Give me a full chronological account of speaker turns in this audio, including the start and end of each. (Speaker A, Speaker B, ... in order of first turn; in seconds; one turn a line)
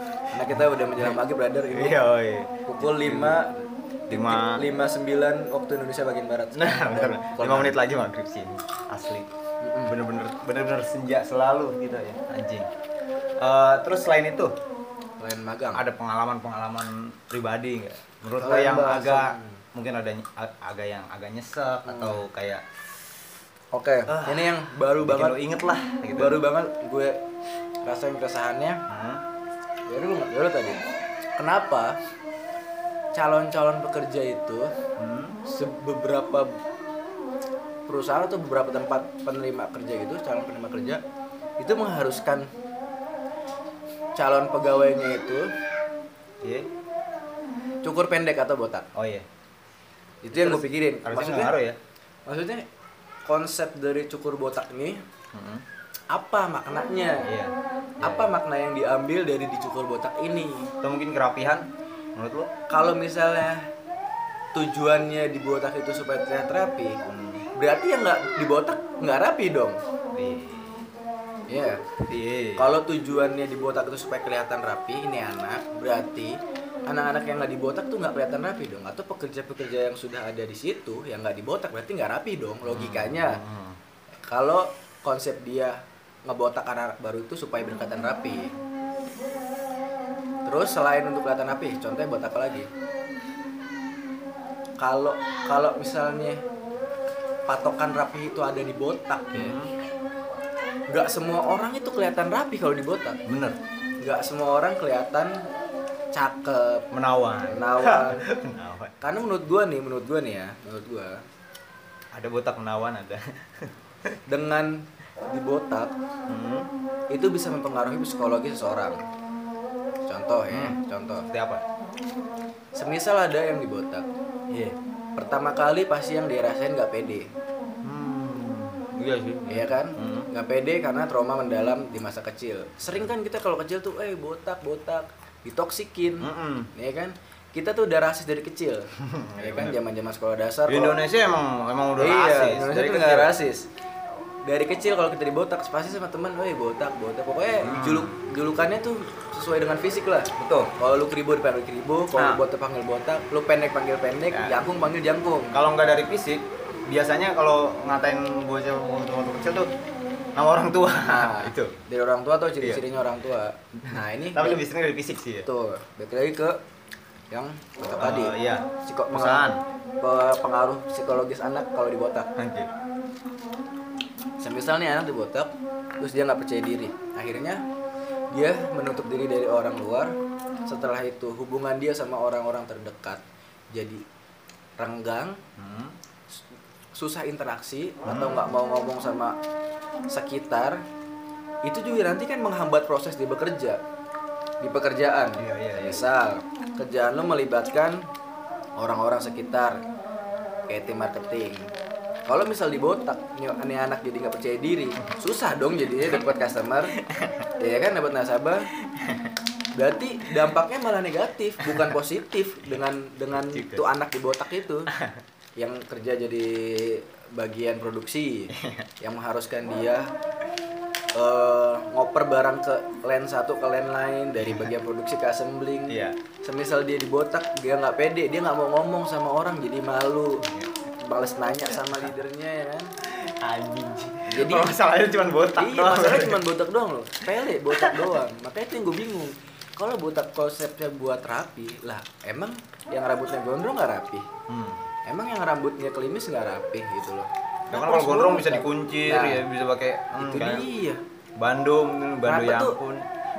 Speaker A: 0.3-2.0
Speaker B: 0.3-1.2
Speaker B: 1.7-3.4
Speaker A: 2.6-3.5
Speaker B: 4.1-4.6
Speaker A: 4.1-7.8
Speaker B: 6.5-9.3
Speaker A: 9.6-9.9
Speaker B: 9.9-12.7
Speaker B: 13.4-14.5
Speaker A: 15.2-15.8
Speaker B: 15.7-22.6
Speaker A: 18.4-19.6
Speaker A: 21.8-22.2
Speaker A: 23.7-25.4
Speaker B: 24.1-26.4
Speaker A: 26.1-27.1
Speaker A: 27.8-28.8
Speaker B: 28.9-29.2
Speaker A: 29.9-30.8
Speaker A: 31.4-31.9
Speaker A: 33.1-34.7
Speaker B: 35.0-35.4
Speaker A: 35.5-36.5
Speaker A: 37.9-41.0
Speaker A: 41.6-42.5
Speaker A: 44.2-45.5
Speaker B: 46.4-46.7
Speaker A: 47.8-48.9
Speaker B: 48.9-49.2
Speaker A: 50.2-51.5
Speaker B: 50.3-51.8
Speaker A: 52.2-52.6
Speaker A: 53.2-55.0
Speaker B: 55.3-55.6
Speaker A: 56.1-57.3
Speaker B: 57.2-58.3
Speaker A: 58.0-60.7
Speaker B: 60.8-62.5
Speaker A: 62.7-63.7
Speaker A: 64.5-67.0
Speaker B: 67.0-67.5
Speaker A: 67.5-69.8
Speaker B: 70.1-70.9
Speaker A: 71.5-71.9
Speaker B: 72.1-72.7
Speaker A: 72.6-76.4
Speaker A: 76.9-83.4
Speaker B: 82.6-83.8
Speaker A: 84.3-88.5
Speaker A: 90.5-92.7
Speaker A: 94.8-96.4
Speaker A: 97.5-99.6
Speaker B: 99.3-99.7
Speaker A: 100.9-103.2
Speaker B: 103.3-103.6
Speaker A: 104.0-105.3
Speaker A: 106.1-106.8
Speaker B: 106.9-109.0
Speaker A: 107.5-108.2
Speaker A: 109.0-111.2
Speaker B: 112.1-114.2
Speaker A: 114.3-115.9
Speaker B: 116.3-116.7
Speaker A: 117.1-119.0
Speaker A: 120.0-121.3
Speaker B: 120.5-120.8
Speaker B: 121.3-121.6
Speaker A: 122.8-124.0
Speaker A: 125.2-127.3
Speaker B: 127.8-130.3
Speaker A: 129.5-141.0
Speaker B: 136.2-136.7
Speaker B: 139.0-139.8
Speaker B: 140.7-143.3
Speaker A: 142.0-143.7
Speaker A: 144.4-155.6
Speaker B: 147.6-148.2
Speaker B: 150.3-150.7
Speaker B: 154.3-154.6
Speaker B: 155.5-159.7
Speaker B: 160.3-161.8
Speaker A: 161.0-164.6
Speaker B: 164.3-165.5
Speaker A: 165.4-166.6
Speaker A: 167.3-169.5
Speaker B: 168.0-169.6
Speaker A: 170.0-172.3
Speaker B: 172.4-172.7
Speaker A: 174.4-177.6
Speaker A: 178.3-180.1
Speaker A: 180.7-183.2
Speaker A: 183.7-184.0
Speaker A: 184.8-185.4
Speaker B: 185.6-185.9
Speaker A: 186.9-189.3
Speaker B: 188.0-188.4
Speaker A: 190.1-190.8
Speaker A: 191.6-193.8
Speaker A: 194.6-198.0
Speaker B: 195.4-196.0
Speaker A: 198.8-199.8
Speaker A: 200.7-201.7
Speaker A: 202.2-206.9
Speaker B: 206.0-206.3
Speaker B: 207.0-207.4
Speaker A: 207.6-208.7
Speaker B: 208.8-209.3
Speaker A: 209.8-214.9
Speaker B: 211.6-211.9
Speaker B: 213.3-213.9
Speaker B: 214.9-215.2
Speaker A: 215.6-220.1
Speaker B: 218.5-218.9
Speaker A: 221.1-230.4
Speaker B: 225.9-226.2
Speaker B: 230.4-230.7
Speaker A: 231.0-232.9
Speaker B: 233.0-236.4
Speaker A: 234.3-234.7
Speaker A: 235.6-244.3
Speaker B: 237.8-238.2
Speaker B: 244.5-244.9
Speaker A: 245.1-249.4
Speaker B: 247.7-250.6
Speaker A: 250.2-251.0
Speaker B: 251.4-253.1
Speaker A: 252.2-252.8